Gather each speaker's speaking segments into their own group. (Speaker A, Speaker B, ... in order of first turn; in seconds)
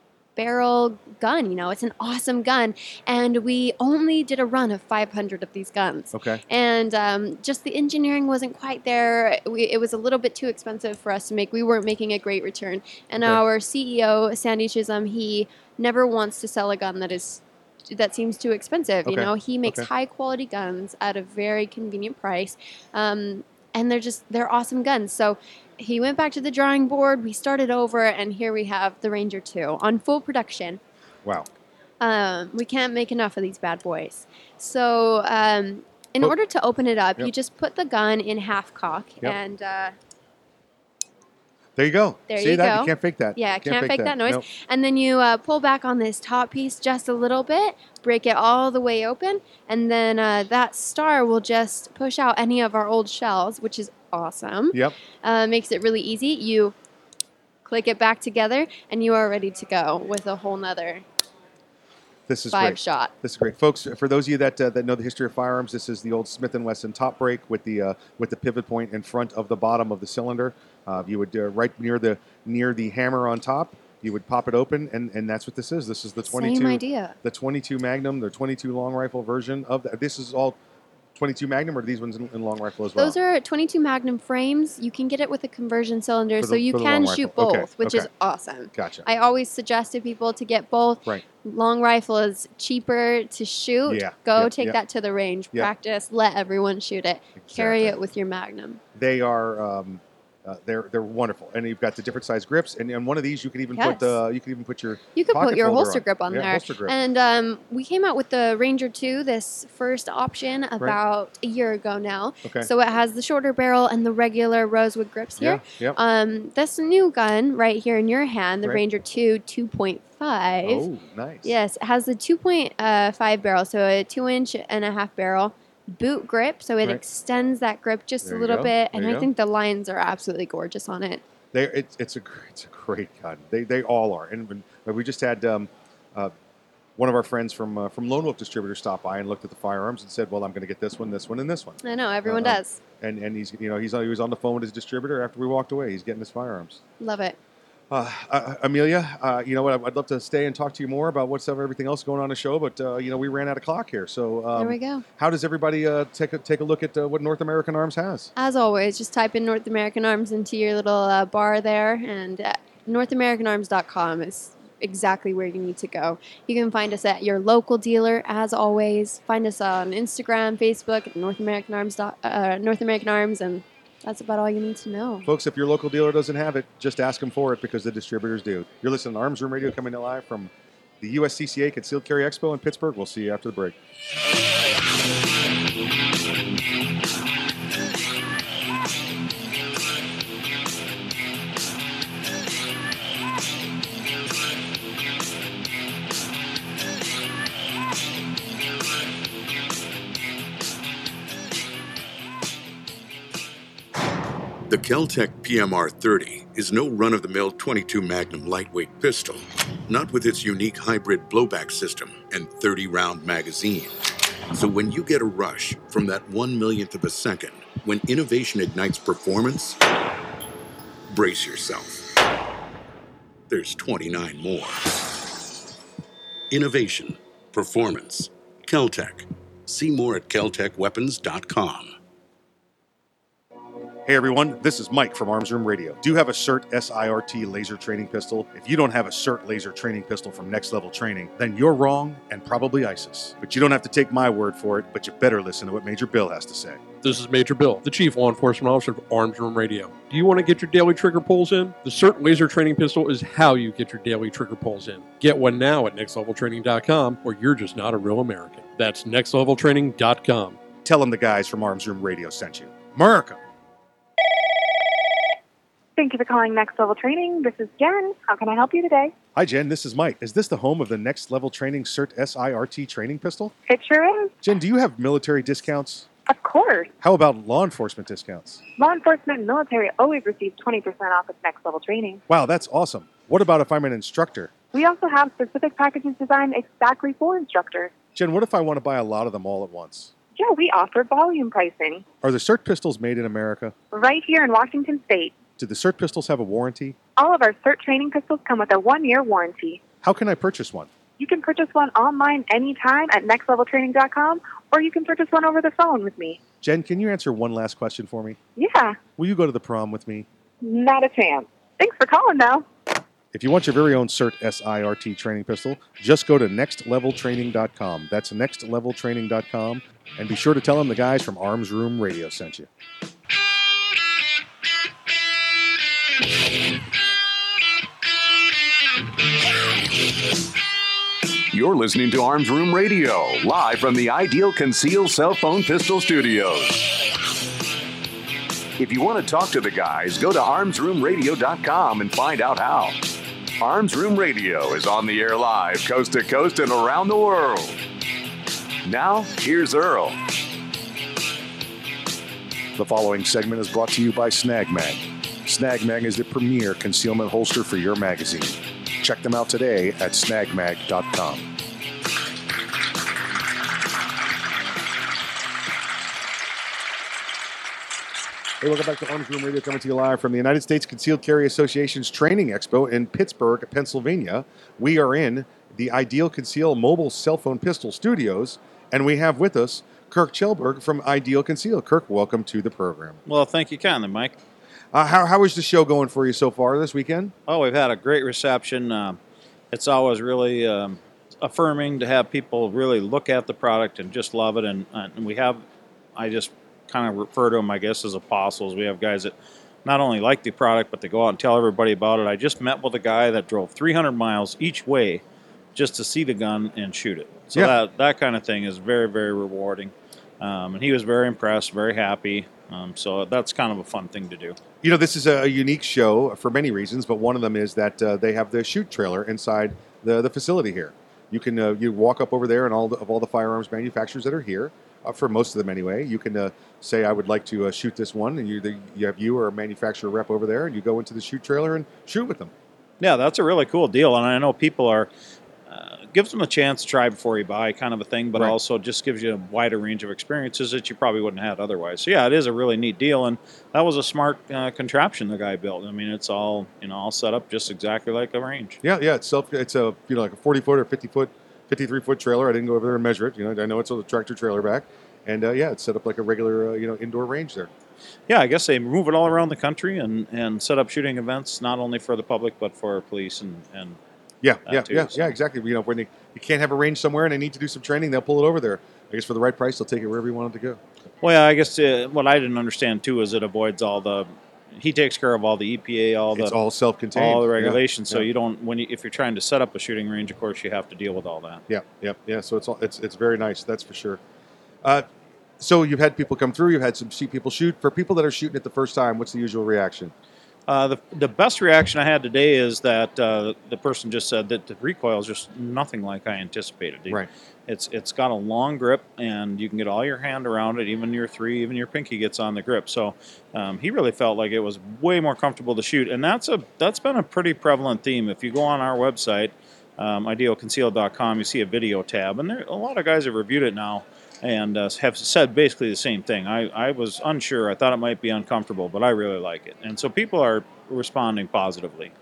Speaker A: 0.4-30.8, 32.0-39.9, 42.3-56.7, 57.7-61.0, 62.5-63.1, 76.3-77.2, 83.0-98.8, 103.8-104.2, 105.1-120.8, 121.4-131.2, 141.8-142.8, 147.0-147.4, 154.6-155.0, 158.4-175.3
Speaker B: 6.1-6.4, 19.1-19.9, 41.8-44.5, 62.3-80.6, 81.2-83.2, 86.4-88.1, 88.7-89.1, 93.9-94.8, 97.4-98.0, 99.0-107.0, 112.4-112.7, 115.4-116.0, 120.6-121.5, 128.2-129.3, 131.5-136.3, 137.0-146.8, 147.9-158.3, 175.2-183.8, 234.1-246.8, 260.9-263.4, 269.4-273.5, 274.4-276.1, 277.0-278.6, 282.3-284.5, 288.1-290.1, 292.2-293.7, 295.6-297.0, 300.0-300.9, 306.6-308.4, 309.2-310.3, 313.3-322.7, 352.8-361.5, 368.6-383.2, 384.9-387.3, 407.5-407.8, 414.8-432.5, 448.8-457.7, 464.4-470.8, 476.3-478.3, 481.7-484.2, 484.8-485.1, 485.6-490.1
Speaker C: 204.7-214.0, 214.5-219.8, 221.1-222.1, 223.5-224.9, 226.5-231.9
Speaker D: 247.0-260.6
Speaker E: 266.0-269.1, 273.7-274.3, 276.3-276.9, 278.8-282.2, 284.7-287.9, 290.4-292.1, 293.9-295.4, 297.2-299.8, 301.2-306.4, 308.6-309.0, 310.6-312.6
Speaker F: 331.5-337.0, 338.8-343.0, 343.6-347.8, 348.8-350.2
Speaker G: 383.3-384.4, 387.5-389.2, 389.7-395.6, 396.2-405.2, 405.8-414.6, 433.0-435.1, 435.7-448.8, 458.3-464.0, 464.7-465.4, 471.2-476.6, 477.1-481.6, 490.7-522.1